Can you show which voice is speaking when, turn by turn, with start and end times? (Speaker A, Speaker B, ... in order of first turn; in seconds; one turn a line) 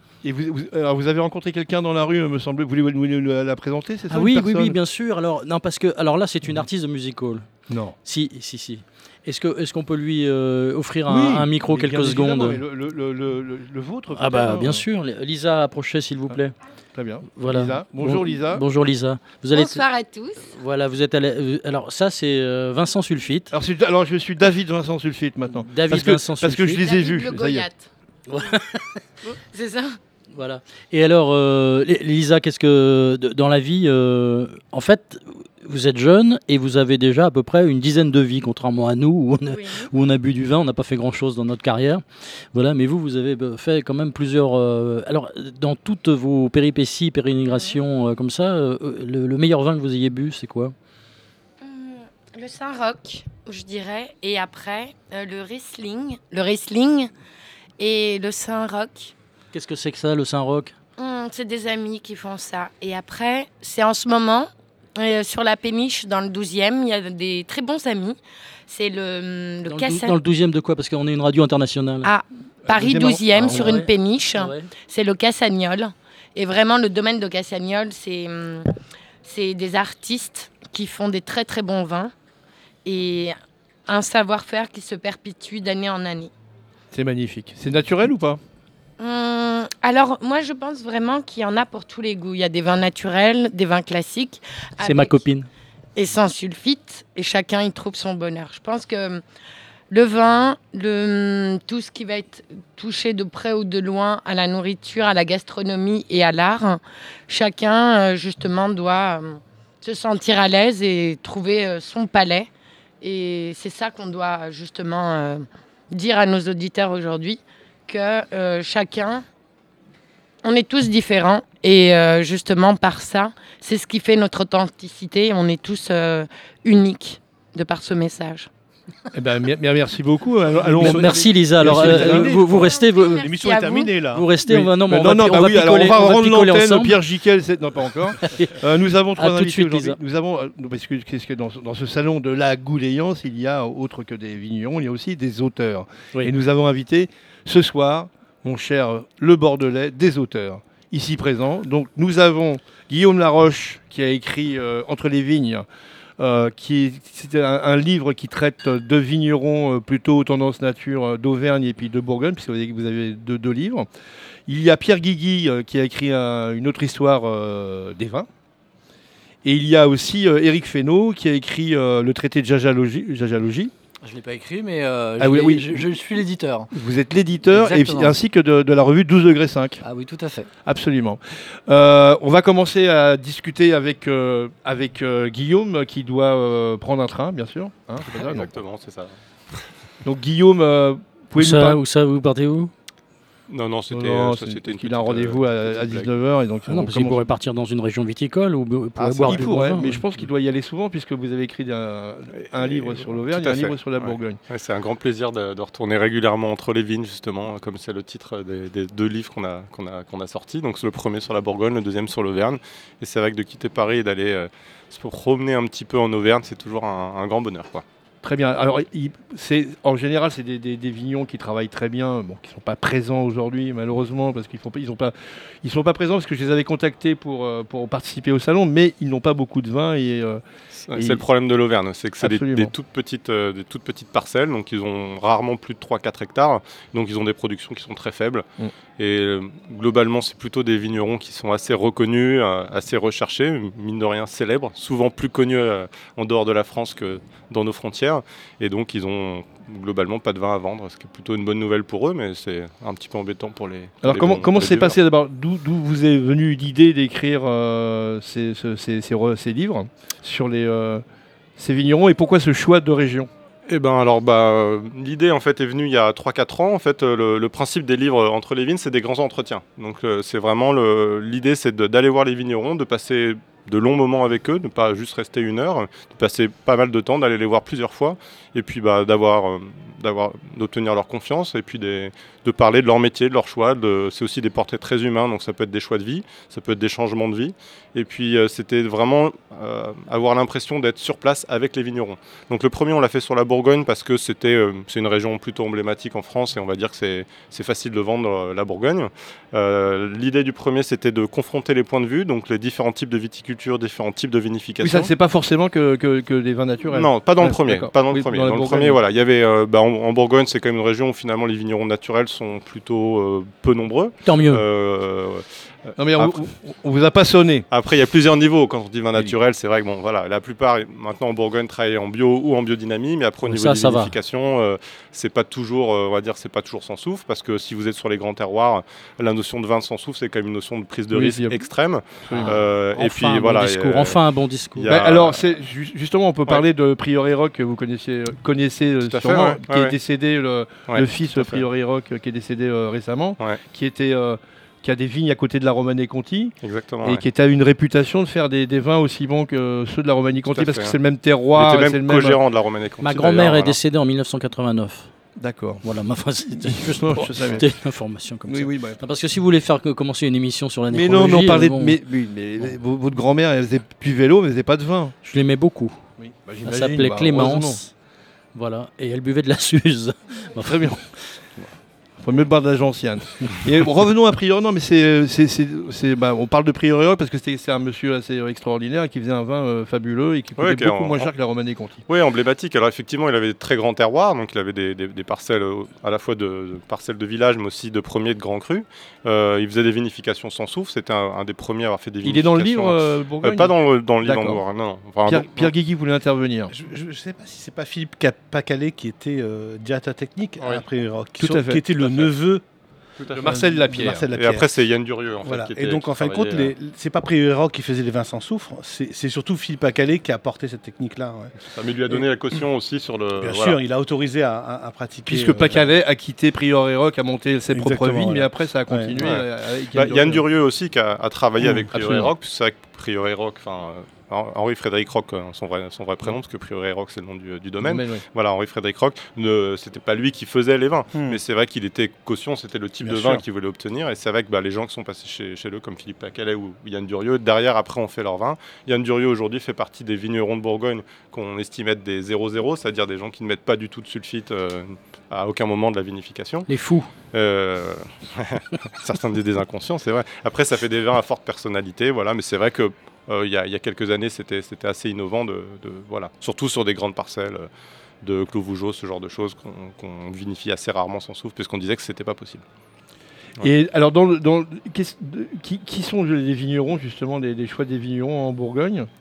Speaker A: 0.2-4.8
Speaker B: 4.1-7.5
Speaker A: 7.7-7.9
Speaker B: 8.0-12.6
Speaker A: 11.1-14.8
Speaker B: 14.1-16.6
Speaker A: 16.9-18.6
Speaker B: 17.4-19.8
Speaker C: 19.5-20.4
Speaker B: 20.4-23.5
Speaker A: 23.5-27.7
Speaker B: 25.6-26.8
Speaker C: 26.8-27.9
Speaker B: 28.3-29.0
Speaker C: 29.3-30.0
Speaker B: 30.3-50.7
Speaker C: 39.5-39.9
Speaker C: 51.6-57.1
Speaker C: 57.8-59.1
Speaker B: 59.5-60.7
Speaker C: 61.0-70.2
Speaker B: 69.7-72.1
Speaker C: 72.0-78.7
Speaker A: 72.7-73.8
Speaker B: 73.4-74.7
Speaker C: 79.2-82.1
Speaker C: 82.8-86.3
Speaker A: 86.9-88.4
Speaker C: 89.0-95.2
Speaker B: 94.8-95.5
Speaker C: 95.9-99.2
Speaker C: 99.9-112.5
Speaker C: 113.0-119.2
Speaker C: 120.4-128.5
Speaker A: 129.1-132.3
Speaker D: 130.6-134.3
Speaker B: 130.8-133.2
Speaker C: 132.5-133.9
Speaker B: 134.1-137.0
Speaker A: 134.4-155.7
Speaker B: 138.2-138.5
Speaker B: 139.2-140.0
Speaker A: 156.2-163.9
Speaker A: 164.5-168.3
Speaker A: 169.4-173.7
Speaker E: 174.0-176.7
Speaker A: 175.2-175.8
Speaker A: 176.7-179.8
Speaker E: 177.5-178.2
Speaker E: 179.8-180.5
Speaker A: 180.7-188.5
Speaker F: 188.0-189.1
Speaker A: 190.0-191.8
Speaker B: 191.4-192.7
Speaker F: 193.5-196.1
Speaker A: 193.9-197.3
Speaker B: 196.7-200.0
Speaker A: 199.0-204.4
Speaker F: 202.6-217.8
Speaker A: 218.2-230.4
Speaker F: 230.9-238.4
Speaker A: 230.9-231.2
Speaker A: 232.2-232.7
Speaker F: 239.0-254.9
Speaker A: 254.0-261.0
Speaker A: 261.6-263.3
Speaker F: 263.7-305.1
Speaker A: 304.8-309.0
Speaker F: 306.9-316.4
Speaker B: 314.2-314.6
Speaker A: 316.0-317.7
Speaker F: 317.7-334.2
Speaker B: 323.5-324.1
Speaker A: 331.1-331.6
Speaker A: 332.2-332.6
Speaker B: 332.3-335.0
Speaker F: 334.8-335.4
Speaker A: 334.8-352.4
Speaker F: 339.0-339.9
Speaker F: 340.9-341.6
Speaker F: 346.6-347.2
Speaker F: 350.5-350.9
Speaker F: 351.5-353.8
Speaker B: 353.0-355.1
Speaker A: 355.4-355.8
Speaker B: 355.8-362.0
Speaker A: 356.6-357.6
Speaker A: 358.5-359.0
Speaker A: 360.9-365.1
Speaker B: 365.2-366.0
Speaker A: 366.2-367.8
Speaker B: 366.6-367.9
Speaker B: 368.5-371.1
Speaker A: 370.6-371.0
Speaker A: 372.2-382.0
Speaker F: 380.6-381.3
Speaker F: 382.1-395.7
Speaker A: 392.2-394.6
Speaker A: 395.2-396.7
Speaker D: 396.7-402.6
Speaker F: 400.6-400.8
Speaker A: 401.4-401.8
Speaker F: 403.2-406.7
Speaker A: 403.3-404.6
Speaker D: 403.4-404.6
Speaker D: 405.4-411.5
Speaker F: 411.6-413.8
Speaker D: 413.4-415.9
Speaker A: 415.3-420.4
Speaker D: 417.7-419.2
Speaker F: 419.2-446.7
Speaker A: 421.6-422.3
Speaker A: 427.8-428.2
Speaker D: 433.0-433.4
Speaker B: 446.7-447.1
Speaker F: 447.3-457.7
Speaker F: 458.2-462.6
Speaker A: 463.6-469.1